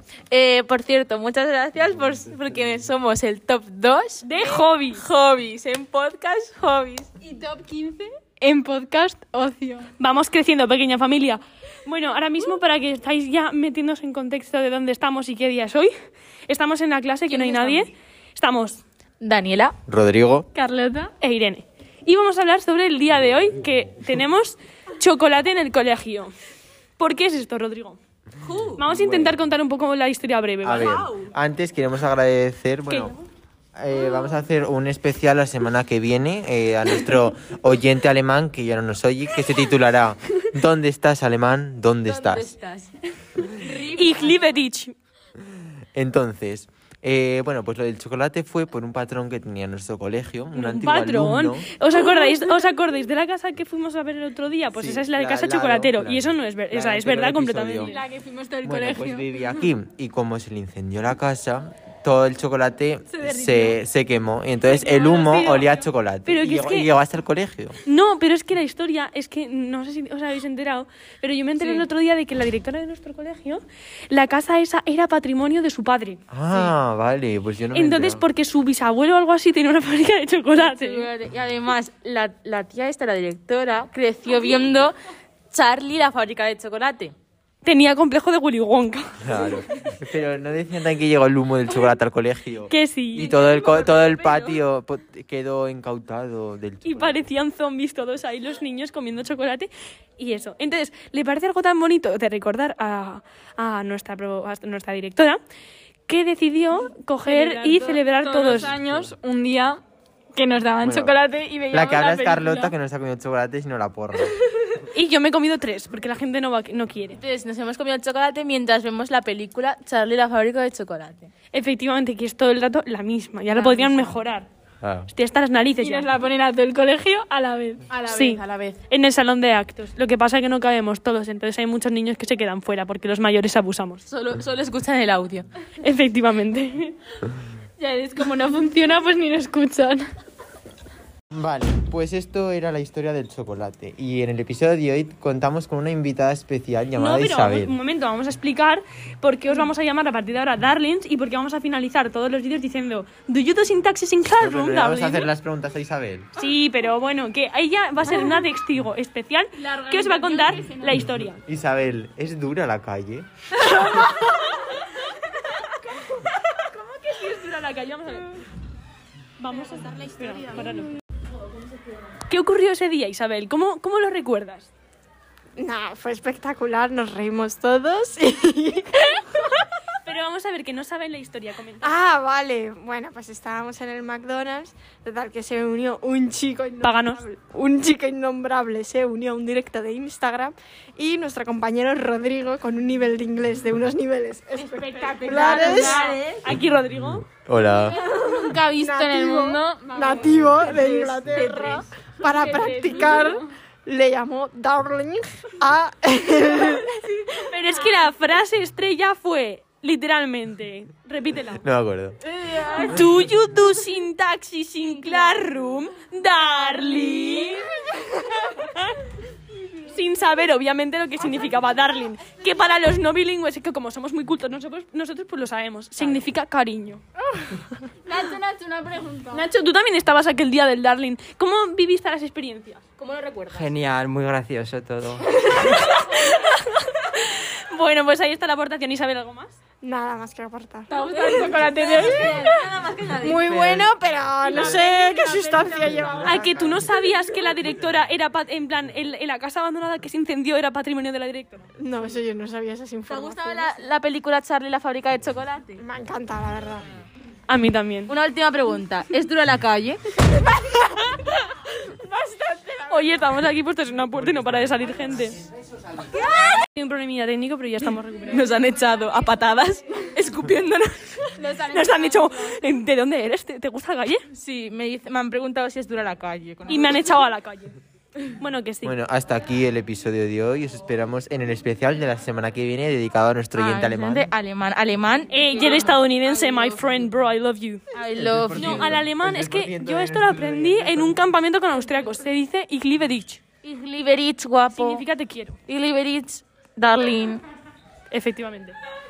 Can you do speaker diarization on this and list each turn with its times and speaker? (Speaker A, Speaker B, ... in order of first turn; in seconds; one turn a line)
Speaker A: 0.3-7.1
Speaker B: 4.2-5.0
Speaker C: 7.2-9.9
Speaker B: 10.0-15.9
Speaker B: 16.5-18.8
Speaker A: 17.3-17.9
Speaker A: 19.2-19.8
Speaker D: 19.9-20.5
Speaker C: 20.6-21.1
Speaker B: 21.2-26.3
Speaker B: 27.0-28.0
Speaker A: 28.4-28.8
Speaker B: 28.8-31.1
Speaker D: 28.9-29.4
Speaker D: 30.6-33.1
Speaker A: 30.8-31.3
Speaker B: 32.9-33.2
Speaker D: 33.8-42.5
Speaker A: 42.1-42.9
Speaker A: 43.5-44.3
Speaker B: 43.5-44.9
Speaker D: 45.4-51.7
Speaker B: 50.5-58.0
Speaker D: 54.8-57.9
Speaker C: 57.9-59.2
Speaker D: 58.6-67.8
Speaker C: 63.2-63.7
Speaker B: 64.7-66.9
Speaker B: 67.9-76.2
Speaker A: 71.6-71.9
Speaker D: 76.3-78.3
Speaker B: 77.7-81.1
Speaker A: 80.6-85.0
Speaker A: 85.5-87.2
Speaker B: 87.6-89.6
Speaker D: 89.2-97.2
Speaker B: 92.7-93.3
Speaker A: 93.2-94.6
Speaker B: 96.8-105.4
Speaker B: 106.1-108.8
Speaker C: 107.2-109.8
Speaker D: 108.5-109.1
Speaker C: 110.3-112.7
Speaker D: 110.8-114.4
Speaker B: 114.8-117.2
Speaker A: 117.2-121.3
Speaker B: 121.5-124.5
Speaker A: 123.5-124.2
Speaker D: 124.8-125.1
Speaker B: 125.1-126.1
Speaker C: 125.8-128.0
Speaker A: 127.9-128.8
Speaker B: 128.1-134.1
Speaker A: 134.1-135.5
Speaker B: 135.8-137.0
Speaker C: 137.8-140.0
Speaker D: 141.3-147.8
Speaker B: 147.0-155.3
Speaker D: 154.4-156.3
Speaker B: 156.4-161.4
Speaker C: 159.7-161.0
Speaker D: 161.4-163.3
Speaker B: 166.1-168.4
Speaker B: 169.4-171.0
Speaker B: 172.3-174.7
Speaker E: 175.6-179.6
Speaker B: 180.0-182.0
Speaker E: 181.8-196.2
Speaker B: 186.8-187.2
Speaker C: 194.8-196.2
Speaker A: 195.1-196.4
Speaker B: 196.4-197.3
Speaker D: 197.3-198.0
Speaker A: 198.1-199.2
Speaker C: 198.1-203.5
Speaker E: 198.3-207.0
Speaker A: 200.8-201.9
Speaker B: 207.4-211.7
Speaker D: 211.6-212.2
Speaker C: 212.4-212.9
Speaker B: 212.6-217.8
Speaker A: 215.1-215.3
Speaker B: 218.5-218.9
Speaker B: 219.7-227.0
Speaker A: 228.1-229.4
Speaker B: 229.3-232.8
Speaker A: 233.0-233.7
Speaker D: 233.5-235.3
Speaker B: 235.6-239.6
Speaker E: 239.8-241.1
Speaker C: 240.9-242.5
Speaker A: 241.2-243.6
Speaker E: 241.8-242.5
Speaker E: 243.1-246.5
Speaker D: 243.5-243.8
Speaker C: 244.4-246.2
Speaker B: 246.2-251.7
Speaker E: 251.8-253.7
Speaker A: 253.1-255.8
Speaker E: 255.8-256.9
Speaker B: 257.5-258.1
Speaker A: 258.1-260.0
Speaker C: 262.2-262.8
Speaker B: 262.8-265.4
Speaker B: 266.8-268.5
Speaker A: 268.3-271.3
Speaker C: 271.4-272.5
Speaker B: 271.6-274.2
Speaker A: 274.3-277.1
Speaker B: 276.7-278.9
Speaker D: 278.8-284.3
Speaker A: 283.6-287.1
Speaker B: 285.3-287.8
Speaker A: 287.9-288.9
Speaker D: 288.2-291.2
Speaker B: 288.6-293.4
Speaker A: 293.6-295.1
Speaker B: 294.7-295.6
Speaker A: 295.7-297.4
Speaker B: 298.1-298.8